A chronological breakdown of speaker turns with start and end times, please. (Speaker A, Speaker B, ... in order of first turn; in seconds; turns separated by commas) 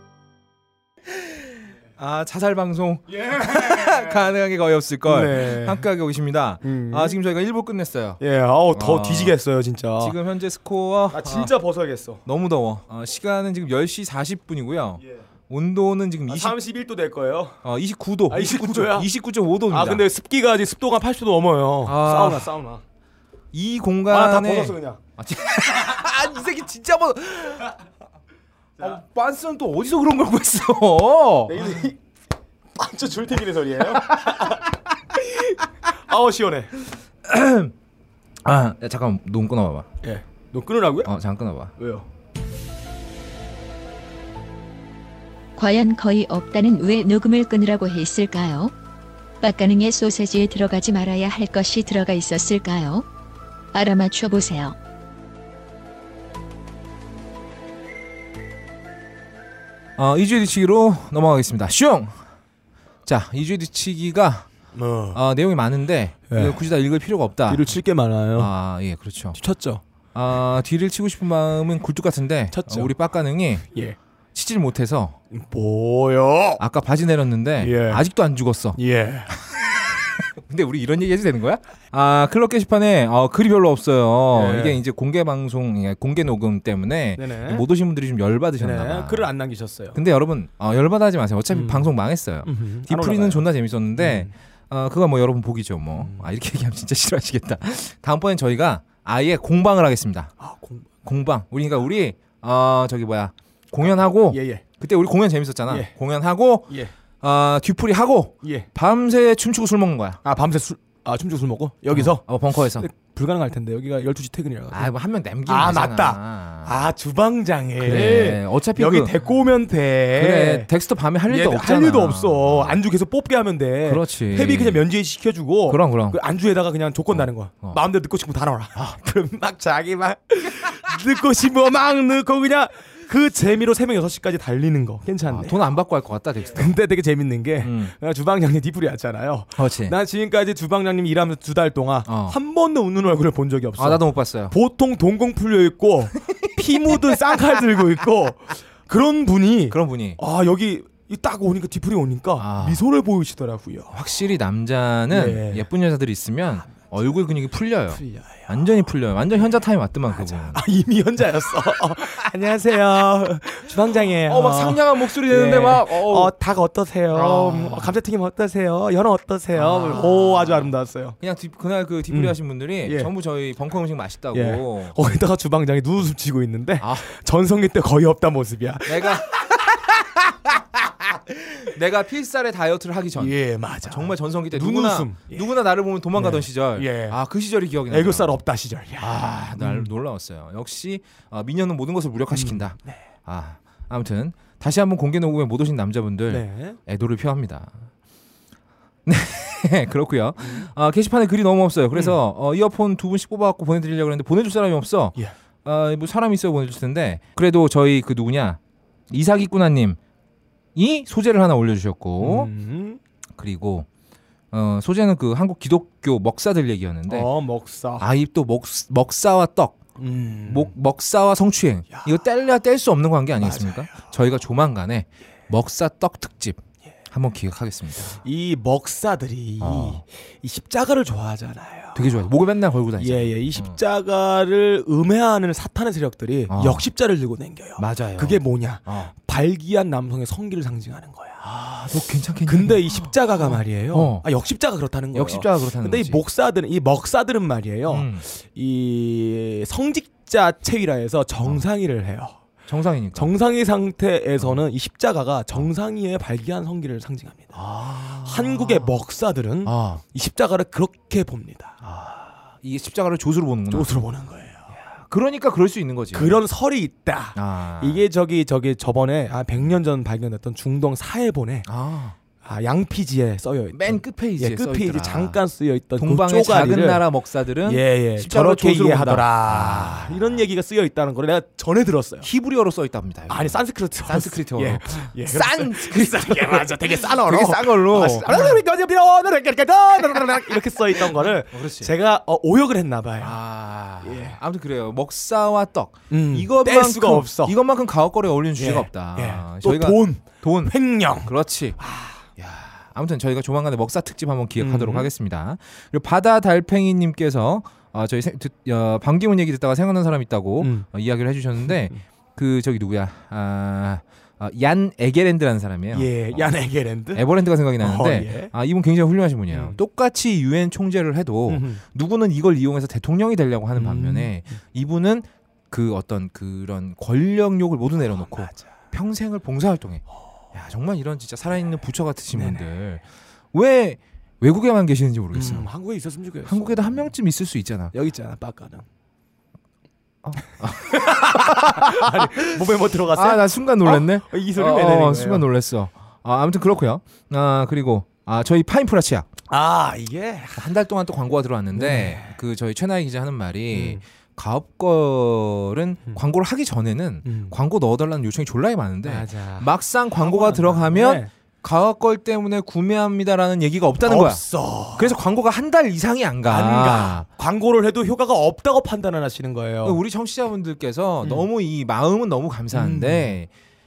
Speaker A: 2.0-8.2, Speaker B: 3.3-4.1, Speaker B: 5.0-5.9, Speaker B: 6.6-7.2, Speaker B: 8.2-10.2, Speaker A: 8.7-9.3, Speaker A: 10.0-11.5, Speaker B: 11.1-12.2, Speaker A: 12.2-16.6, Speaker B: 16.3-17.6, Speaker A: 17.6-20.0, Speaker B: 18.3-19.1, Speaker B: 19.7-22.8, Speaker A: 21.9-22.5, Speaker A: 23.5-27.7, Speaker B: 24.1-25.0, Speaker A: 28.8-31.8, Speaker B: 31.5-32.0, Speaker B: 32.8-36.7, Speaker A: 34.2-34.5, Speaker A: 37.2-37.7, Speaker A: 38.5-39.9, Speaker B: 40.0-41.1, Speaker A: 41.0-41.7, Speaker B: 41.8-42.1, Speaker C: 45.6-48.7, Speaker C: 49.4-53.1, Speaker C: 53.7-54.8, Speaker A: 60.0-62.2, Speaker A: 63.1-64.5, Speaker B: 64.7-65.2, Speaker A: 65.1-67.7, Speaker B: 66.3-66.6, Speaker B: 67.5-68.5, Speaker A: 68.3-69.4, Speaker B: 69.3-69.8, Speaker A: 70.2-73.7, Speaker B: 72.5-72.9, Speaker B: 73.7-74.0, Speaker A: 74.3-75.2, Speaker B: 75.3-76.6, Speaker A: 76.6-78.8, Speaker B: 77.6-78.0, Speaker B: 78.8-79.3, Speaker A: 80.4-89.3, Speaker B: 84.3-84.8, Speaker B: 87.2-87.7, Speaker B: 88.6-90.0, Speaker A: 89.9-100.3, Speaker B: 91.5-91.9, Speaker B: 92.5-94.3, Speaker B: 96.0-96.3, Speaker B: 100.4-100.9, Speaker A: 101.0-110.2, Speaker B: 104.3-104.6, Speaker B: 105.7-105.9, Speaker B: 108.4-108.7, Speaker B: 110.2-114.9, Speaker A: 111.9-112.9, Speaker A: 114.7-116.8, Speaker B: 115.5-120.7, Speaker A: 117.8-119.1, Speaker A: 120.2-122.8, Speaker B: 121.3-135.7, Speaker A: 123.9-124.8, Speaker A: 125.7-126.2, Speaker A: 127.1-127.8, Speaker A: 135.3-136.7, Speaker B: 136.5-154.0, Speaker A: 137.6-137.9, Speaker A: 139.6-140.0, Speaker A: 142.1-142.4, Speaker A: 143.8-144.6, Speaker A: 146.4-147.1, Speaker A: 149.7-150.2, Speaker A: 152.4-152.8, Speaker A: 153.9-160.6, Speaker B: 155.1-155.7, Speaker B: 157.9-158.7, Speaker B: 160.1-171.2, Speaker A: 164.3-166.3, Speaker A: 167.1-167.9, Speaker A: 169.6-170.7, Speaker A: 171.2-175.0, Speaker B: 172.1-173.1, Speaker B: 174.3-180.2, Speaker A: 176.8-177.1, Speaker A: 178.9-179.3, Speaker A: 181.7-188.4, Speaker B: 183.2-185.5, Speaker B: 186.2-187.2, Speaker B: 187.9-189.9, Speaker A: 189.0-197.8, Speaker B: 192.3-193.0, Speaker B: 196.3-196.8, Speaker A: 199.1-208.6, Speaker B: 200.4-200.7, Speaker A: 209.1-210.0, Speaker A: 210.8-212.5, Speaker B: 212.2-213.0, Speaker A: 213.4-213.9, Speaker A: 214.5-217.3, Speaker B: 217.1-218.1, Speaker A: 218.0-219.8, Speaker B: 220.0-220.7, Speaker A: 220.5-226.6, Speaker B: 221.9-222.2, Speaker B: 223.4-224.0, Speaker A: 227.1-228.2, Speaker B: 228.2-232.2, Speaker A: 229.6-230.0, Speaker A: 231.9-233.8, Speaker B: 233.0-241.4, Speaker A: 236.5-236.9, Speaker A: 237.8-239.1, Speaker A: 241.4-244.2, Speaker B: 242.5-252.4, Speaker A: 245.1-246.2, Speaker A: 247.9-248.2, Speaker A: 252.7-253.3, Speaker B: 253.2-257.6, Speaker A: 257.5-258.9, Speaker B: 258.2-261.8, Speaker A: 259.6-260.0, Speaker A: 261.8-263.9, Speaker B: 263.7-264.7, Speaker A: 265.1-266.4, Speaker B: 266.1-271.7, Speaker A: 267.4-268.0, Speaker A: 271.7-272.2, Speaker B: 272.4-277.0, Speaker A: 273.7-275.4, Speaker A: 276.0-280.2, Speaker B: 277.6-282.3, Speaker A: 282.2-288.6, Speaker B: 283.3-293.4, Speaker A: 291.5-291.9, Speaker A: 293.2-301.8, Speaker B: 294.0-294.4, Speaker B: 296.1-297.6, Speaker B: 298.6-302.2, Speaker A: 302.4-316.5, Speaker B: 304.6-305.1, Speaker B: 310.6-310.9, Speaker B: 311.6-312.0, Speaker B: 315.9-317.3, Speaker A: 317.1-335.7, Speaker B: 317.8-318.5, Speaker B: 319.5-319.8, Speaker B: 321.5-321.8, Speaker B: 323.8-324.4, Speaker B: 328.1-328.7, Speaker B: 332.3-332.6, Speaker B: 335.3-337.1, Speaker A: 336.5-337.9, Speaker B: 337.9-338.9, Speaker A: 340.2-342.6, Speaker B: 340.9-345.5, Speaker A: 343.1-349.3, Speaker B: 349.5-350.7, Speaker A: 350.6-364.4, Speaker B: 351.7-352.4, Speaker B: 353.7-354.0, Speaker B: 357.2-357.6, Speaker B: 359.0-361.3, Speaker B: 364.0-365.2, Speaker A: 364.9-367.3, Speaker B: 366.5-370.0, Speaker A: 369.8-373.5, Speaker B: 372.7-373.4